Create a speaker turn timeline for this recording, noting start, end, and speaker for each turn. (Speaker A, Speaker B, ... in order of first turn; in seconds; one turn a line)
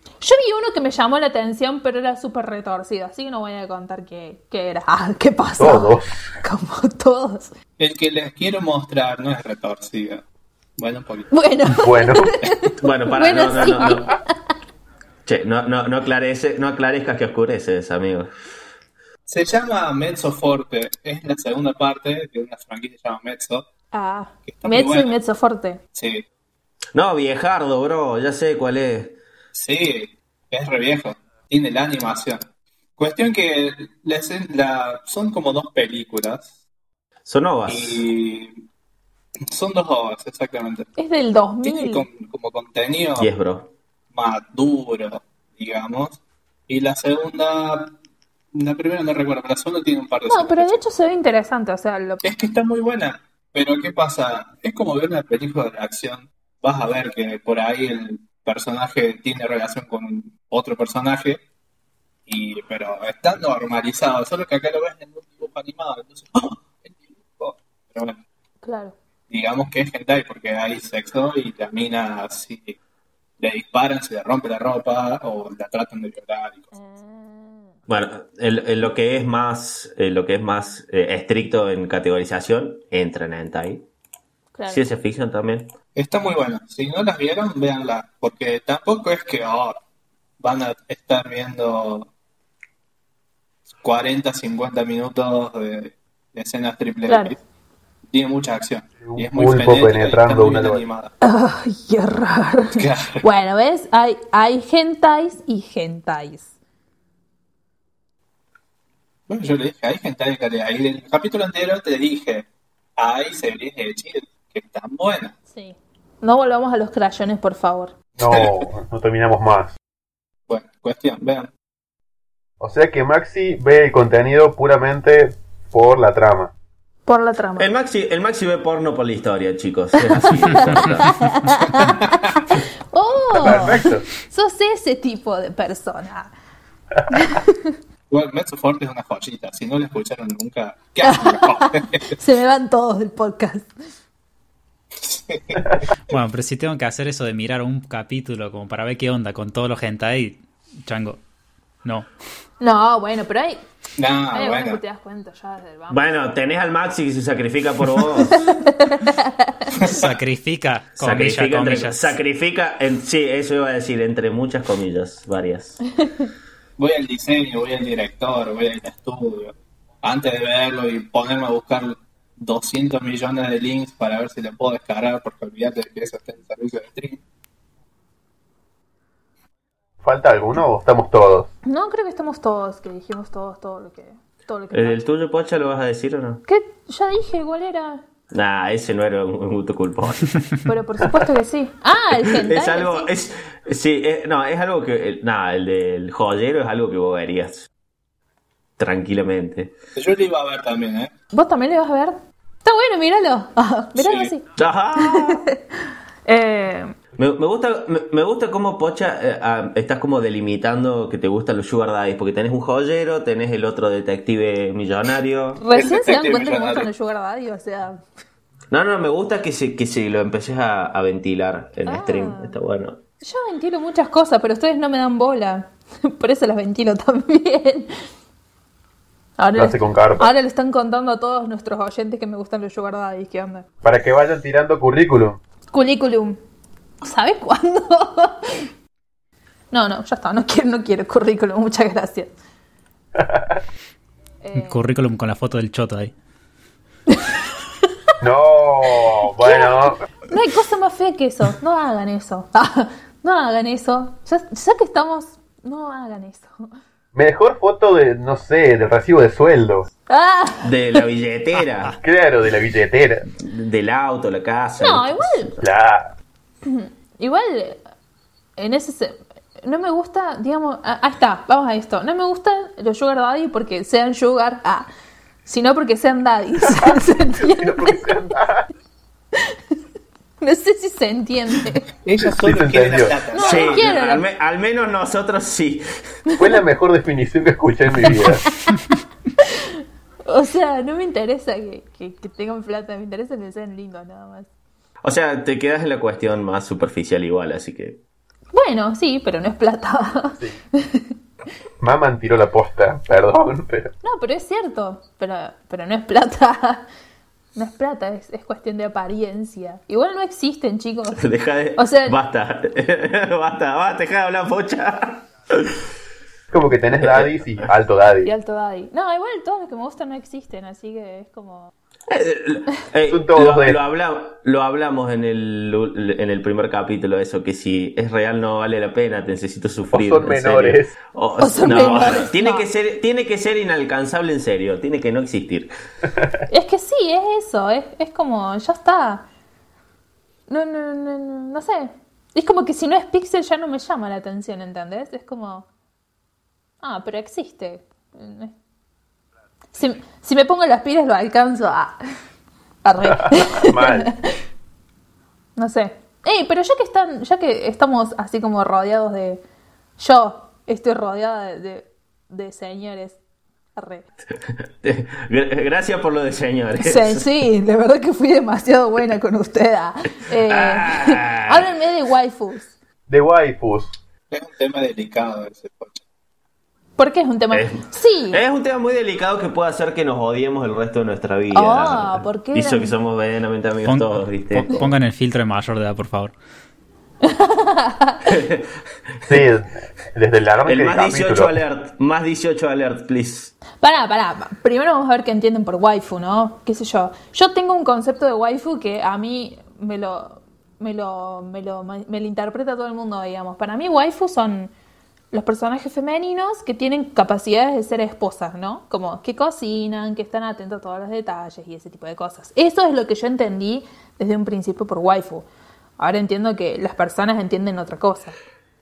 Speaker A: 0.2-7.5
Speaker B: 5.6-6.3
Speaker C: 7.8-10.2
Speaker C: 10.8-11.3
Speaker A: 11.3-14.2
Speaker B: 11.8-12.3
Speaker D: 12.8-14.2
Speaker D: 15.3-18.3
Speaker C: 19.3-23.7
Speaker A: 23.9-25.8
Speaker C: 24.5-25.2
Speaker C: 25.9-26.3
Speaker D: 26.9-29.2
Speaker C: 29.5-36.5
Speaker D: 37.3-38.0
Speaker C: 37.7-38.6
Speaker C: 39.5-40.9
Speaker A: 41.0-42.1
Speaker C: 41.6-43.3
Speaker D: 43.2-43.7
Speaker C: 44.1-48.0
Speaker C: 48.5-50.8
Speaker A: 50.3-52.2
Speaker C: 52.2-61.4
Speaker C: 62.3-68.2
Speaker A: 68.6-69.0
Speaker C: 69.3-72.8
Speaker C: 73.4-76.7
Speaker A: 76.7-77.8
Speaker D: 77.9-83.9
Speaker A: 84.5-84.9
Speaker D: 84.7-85.7
Speaker C: 86.0-89.8
Speaker C: 90.4-92.1
Speaker C: 93.8-97.4
Speaker A: 97.1-97.3
Speaker C: 98.1-101.1
Speaker B: 99.0-100.8
Speaker A: 101.2-106.5
Speaker C: 102.8-103.3
Speaker C: 109.3-115.4
Speaker A: 115.5-117.9
Speaker B: 118.2-119.8
Speaker C: 118.2-118.6
Speaker C: 120.5-121.5
Speaker B: 122.6-126.5
Speaker A: 127.1-127.7
Speaker D: 127.6-131.2
Speaker A: 130.1-136.3
Speaker C: 131.8-132.2
Speaker B: 133.3-134.1
Speaker A: 137.1-137.8
Speaker C: 138.1-142.2
Speaker A: 141.0-143.7
Speaker C: 145.0-146.2
Speaker E: 146.1-151.2
Speaker E: 151.8-152.1
Speaker A: 152.6-153.6
Speaker C: 154.0-154.8
Speaker A: 154.3-156.1
Speaker D: 155.9-158.4
Speaker A: 158.3-159.8
Speaker C: 159.7-160.1
Speaker E: 159.9-162.2
Speaker D: 161.0-165.8
Speaker A: 166.0-166.3
Speaker C: 166.8-177.2
Speaker B: 180.0-181.5
Speaker A: 181.7-185.0
Speaker D: 184.7-186.4
Speaker A: 186.5-188.0
Speaker D: 188.3-190.3
Speaker A: 190.7-193.1
Speaker D: 192.1-197.7
Speaker D: 198.8-199.7
Speaker C: 199.9-201.1
Speaker A: 201.3-204.5
Speaker C: 204.0-204.3
Speaker D: 204.6-205.5
Speaker A: 205.0-206.9
Speaker D: 207.2-215.6
Speaker A: 215.6-218.1
Speaker C: 215.7-216.9
Speaker D: 218.7-223.0
Speaker A: 221.9-222.6
Speaker A: 223.2-228.0
Speaker A: 229.4-233.7
Speaker B: 229.6-230.3
Speaker B: 233.8-235.4
Speaker A: 235.7-236.4
Speaker A: 237.0-238.7
Speaker A: 239.7-242.3
Speaker B: 243.2-243.6
Speaker A: 244.4-244.8
Speaker E: 244.6-246.1
Speaker A: 247.1-247.4
Speaker B: 248.2-250.0
Speaker A: 249.4-256.7
Speaker B: 257.1-259.9
Speaker A: 260.1-261.1
Speaker D: 260.6-262.0
Speaker B: 262.0-263.3
Speaker D: 263.4-265.7
Speaker A: 264.8-265.6
Speaker B: 265.6-266.1
Speaker A: 266.6-267.8
Speaker A: 268.6-274.9
Speaker A: 275.4-278.1
Speaker B: 276.8-278.7
Speaker A: 280.4-281.9
Speaker C: 282.0-283.9
Speaker B: 282.2-283.2
Speaker A: 283.3-284.2
Speaker D: 283.4-286.0
Speaker B: 286.4-288.4
Speaker A: 289.4-294.5
Speaker D: 295.0-298.0
Speaker A: 298.5-301.1
Speaker B: 301.8-303.9
Speaker A: 304.0-306.9
Speaker A: 307.6-311.2
Speaker D: 311.2-315.8
Speaker A: 311.8-312.2
Speaker B: 316.5-318.3
Speaker D: 316.9-317.7
Speaker A: 318.2-321.7
Speaker D: 322.1-335.7
Speaker B: 323.1-323.8
Speaker B: 329.9-330.9
Speaker A: 331.4-332.7
Speaker A: 336.5-339.2
Speaker A: 340.5-345.7
Speaker A: 346.8-348.5
Speaker A: 349.7-352.0
Speaker A: 352.9-354.3
Speaker B: 353.1-354.1
Speaker A: 355.6-359.4
Speaker A: 360.0-363.2
Speaker A: 363.8-364.1
Speaker D: 364.4-367.3
Speaker A: 366.8-372.7
Speaker D: 370.5-371.7
Speaker B: 373.1-373.9
Speaker C: 374.3-376.0
Speaker A: 377.0-378.4
Speaker D: 377.5-384.9
Speaker A: 381.5-383.0
Speaker E: 383.9-386.3
Speaker A: 387.2-388.2
Speaker D: 388.2-389.4
Speaker B: 389.3-391.6
Speaker D: 390.6-393.5
Speaker A: 393.8-404.7
Speaker A: 405.3-415.5
Speaker A: 416.0-418.4